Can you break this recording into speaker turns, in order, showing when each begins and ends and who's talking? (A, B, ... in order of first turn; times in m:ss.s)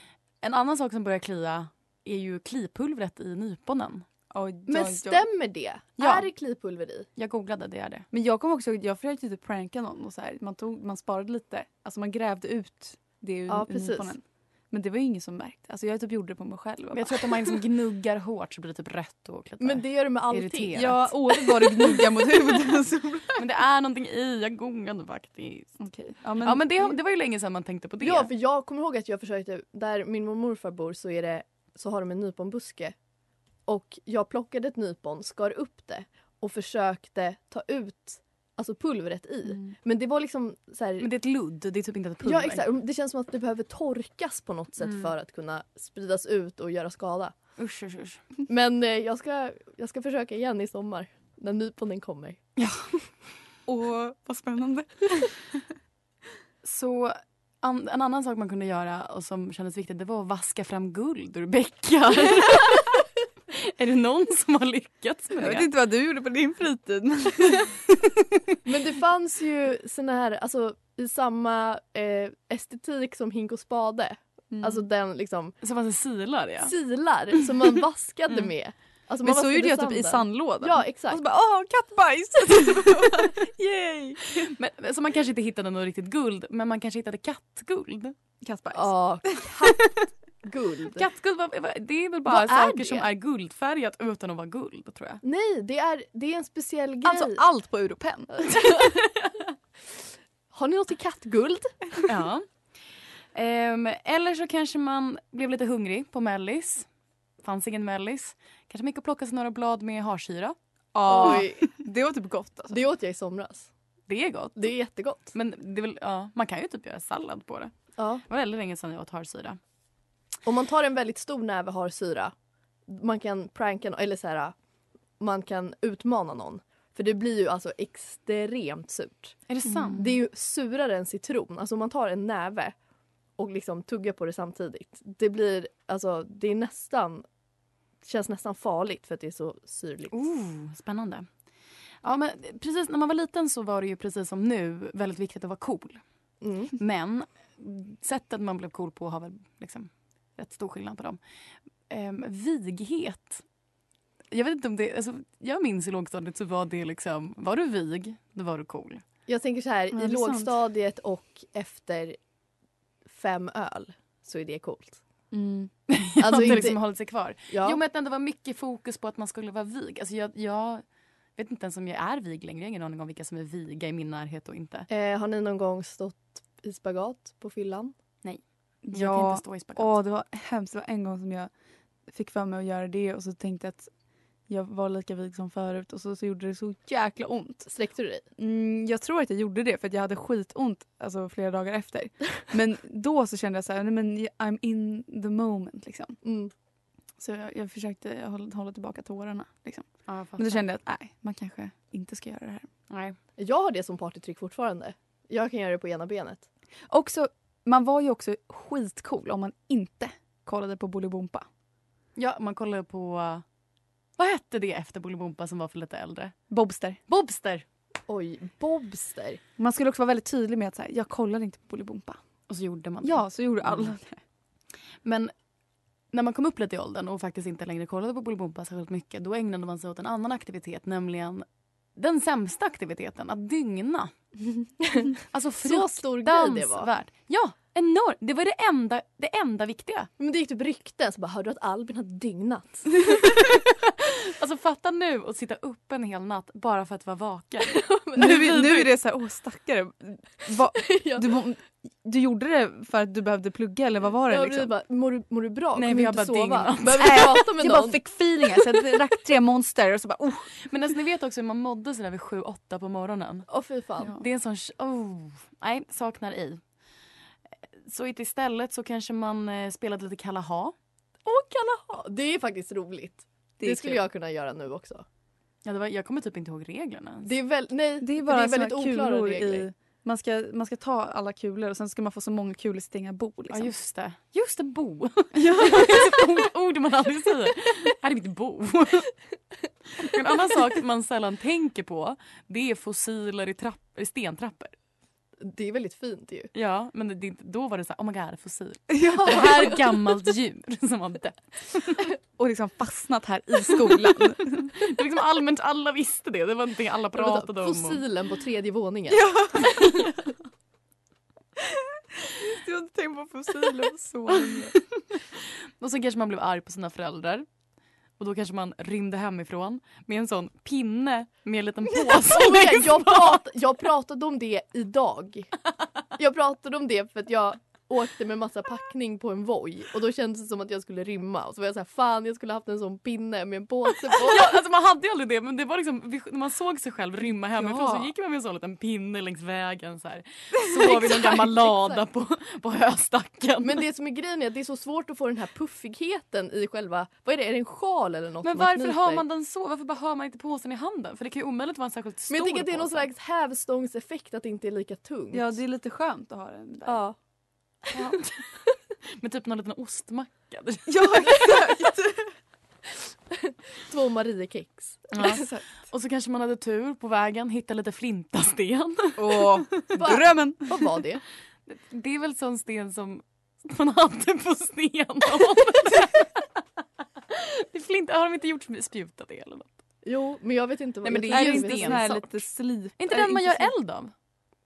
0:00.4-0:04.1 A
0:04.3-0:05.3 B
0:04.7-0:07.1 C
0:06.0-0:06.3 A
0:07.2-0:08.1 A
0:08.1-0:17.3 B
0:13.5-0:14.2 C
0:16.9-0:21.1 A
0:19.6-0:21.0 C
0:20.7-0:23.4 B
0:23.4-0:25.8 A
0:25.8-0:27.0 B
0:26.4-0:28.3 A
0:28.0-0:33.0 C
0:33.7-0:41.1 C
0:39.5-0:39.8 B
0:41.0-0:42.7 A
0:42.2-0:47.4 C
0:44.8-0:45.1 A
0:47.6-0:48.2 A
0:48.5-0:52.4 C
0:53.7-0:55.5 B
0:56.6-1:05.7 A
1:05.4-1:07.8 B
1:08.6-1:15.6 C
1:14.5-1:14.8 B
1:15.6-1:16.7 A
1:16.6-1:21.2 C
1:19.2-1:24.2 B
1:24.3-1:28.1 A
1:28.4-1:29.8 B
1:28.7-1:31.0 C
1:31.0-1:35.2 A
1:32.3-1:33.0 C
1:32.3-1:32.8 B
1:35.2-1:37.4 C
1:37.0-1:38.3 B
1:38.4-1:39.1 C
1:40.5-1:42.0 C
1:42.1-1:42.5 A
1:43.3-1:46.9 A
1:47.4-1:50.6 A
1:50.9-1:52.8 B
1:51.1-1:51.8 C
1:52.7-1:53.7 C
1:54.1-1:54.7 A
1:54.6-1:55.3 C
1:55.3-1:57.7 A
1:58.0-1:58.2 C
1:58.2-1:59.6 A
2:00.4-2:02.3 C
2:02.9-2:04.6 C
2:05.2-2:09.4 C
2:09.5-2:10.0 A
2:09.7-2:10.1 B
2:10.0-2:12.8 C
2:13.4-2:17.2 C
2:18.0-2:20.2 C
2:20.1-2:21.3 A
2:22.0-2:26.0 A
2:26.4-2:26.8 C
2:26.8-2:31.2 A
2:31.9-2:33.4 A
2:34.3-2:39.0 A
2:39.3-2:42.2 C
2:39.9-2:40.6 B
2:43.1-2:45.0 C
2:45.3-2:45.7 B
2:45.9-2:50.8 A
2:46.2-2:46.8 C
2:47.5-2:47.8 C
2:51.4-2:54.9 A
2:54.9-2:57.9 C
2:58.8-3:01.5 B
2:58.9-3:00.0 A
3:02.1-3:03.9 B
3:04.5-3:07.7 B
3:07.7-3:08.2 C
3:08.4-3:16.2 B
3:16.2-3:16.5 C
3:17.2-3:22.7 B
3:20.1-3:20.7 A
3:22.9-3:23.2 A
3:23.4-3:26.5 C
3:26.9-3:31.5 B
3:32.2-3:33.4 A
3:34.2-3:36.4 A
3:36.5-3:37.0 B
3:37.1-3:37.6 A
3:38.1-3:39.4 C
3:39.6-3:42.2 B
3:42.5-3:43.9 A
3:43.0-3:44.2 B
3:45.0-3:45.3 A
3:46.1-3:54.1 A
3:54.9-3:56.9 C
3:55.3-4:00.1 A
4:00.2-4:03.3 C
4:04.3-4:08.8 A
4:07.7-4:08.7 C
4:08.2-4:14.7 B
4:10.8-4:11.3 C
4:14.3-4:18.0 C
4:15.8-4:17.4 A
4:17.0-4:20.5 B
4:20.7-4:23.5 A
4:23.5-4:24.1 C
4:24.2-4:26.6 A
4:27.8-4:30.7 A
4:31.2-4:35.0 C
4:33.6-4:34.0 B
4:35.6-4:37.3 A
4:37.2-4:39.7 C
4:38.0-4:43.7 B
4:43.5-4:49.1 A
4:45.4-4:46.2 B
4:50.0-4:54.7 A
4:55.4-4:56.5 C
4:56.5-5:02.0 A
4:58.9-4:59.8 B
5:02.4-5:04.7 B
5:04.8-5:08.0 A
5:07.1-5:09.4 C
5:09.1-5:10.2 B
5:12.4-5:14.8 B
5:15.8-5:17.5 A
5:18.2-5:23.4 A
5:22.2-5:25.6 C
5:26.2-5:34.6 C
5:34.1-5:43.8 A
5:37.6-5:38.1 B
5:40.8-5:42.0 C
5:43.6-5:49.2 C
5:48.4-5:53.1 A
5:52.3-5:55.6 C
5:55.3-5:57.0 B
5:56.9-5:57.2 C
5:57.9-5:58.4 A
5:59.2-6:01.4 A
6:00.9-6:02.3 B
6:03.3-6:05.1 C
6:05.1-6:09.8 A
6:05.2-6:05.7 B
6:09.2-6:10.9 B
6:09.9-6:11.2 C
6:11.7-6:16.5 A
6:17.3-6:19.7 A
6:20.0-6:22.4 C
6:21.0-6:22.2 A
6:21.3-6:23.7 B
6:23.0-6:24.1 A